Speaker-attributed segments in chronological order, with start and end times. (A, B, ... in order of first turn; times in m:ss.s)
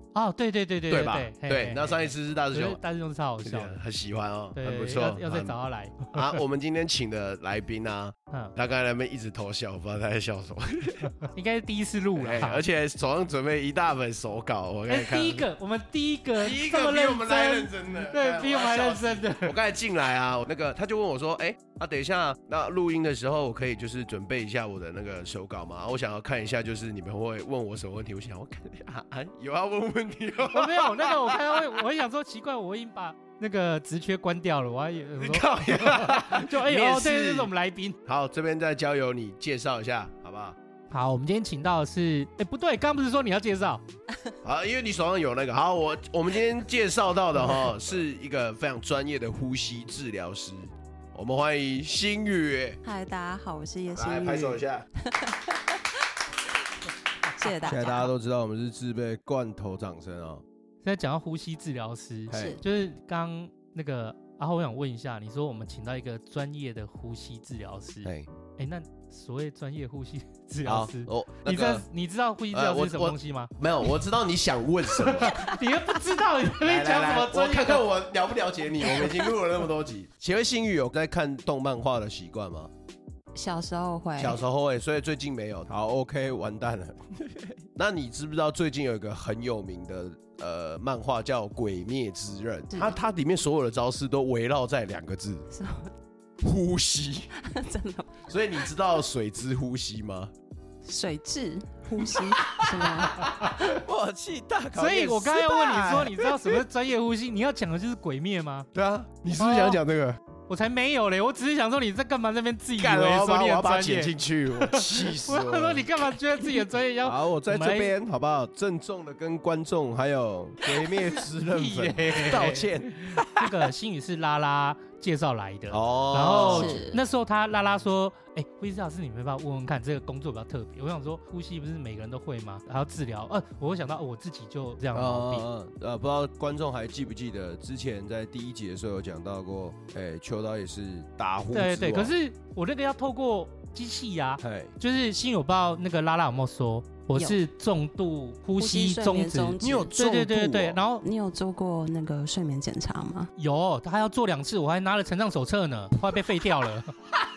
0:00.1-0:03.8 A
0:00.9-0:02.8 B
0:03.4-0:05.6 B
0:04.6-0:06.4 A
0:06.1-0:11.1 B
0:11.3-0:12.6 A
0:12.2-0:15.4 B
0:14.9-0:19.5 A
0:16.3-0:31.7 B
0:30.4-0:38.0 A
0:35.2-0:37.5 B
0:38.0-0:40.6 B
0:40.9-0:43.8 A
0:44.4-0:52.8 B
0:52.8-0:55.8 C
0:53.9-0:54.9 B
0:57.4-0:58.1 C
0:57.6-1:00.4 B
1:00.8-1:13.5 A
1:02.3-1:02.6 B
1:02.3-1:02.6 C
1:10.7-1:11.8 B
1:12.5-1:15.4 B
1:15.0-1:17.8 A
1:16.6-1:22.7 B
1:23.3-1:24.4 C
1:24.2-1:35.4 B
1:35.5-1:35.9 C
1:36.4-1:37.3 B
1:37.4-1:38.4 C
1:38.3-1:40.3 B
1:40.8-1:43.8 C
1:42.0-1:46.6 B
1:43.1-1:43.5 A
1:44.7-1:48.7 A
1:48.7-1:50.2 B
1:49.4-1:49.8 A
1:50.5-1:57.9 A
1:52.8-1:55.9 B
1:57.0-2:03.5 B
2:01.5-2:02.7 A
2:03.3-2:15.4 A
2:05.7-2:06.9 B
2:06.4-2:07.0 C
2:14.9-2:22.1 B
2:21.5-2:31.0 A
2:24.4-2:24.7 B
2:28.6-2:30.0 C
2:29.6-2:30.8 B
2:31.0-2:33.3 C
2:33.4-2:36.9 A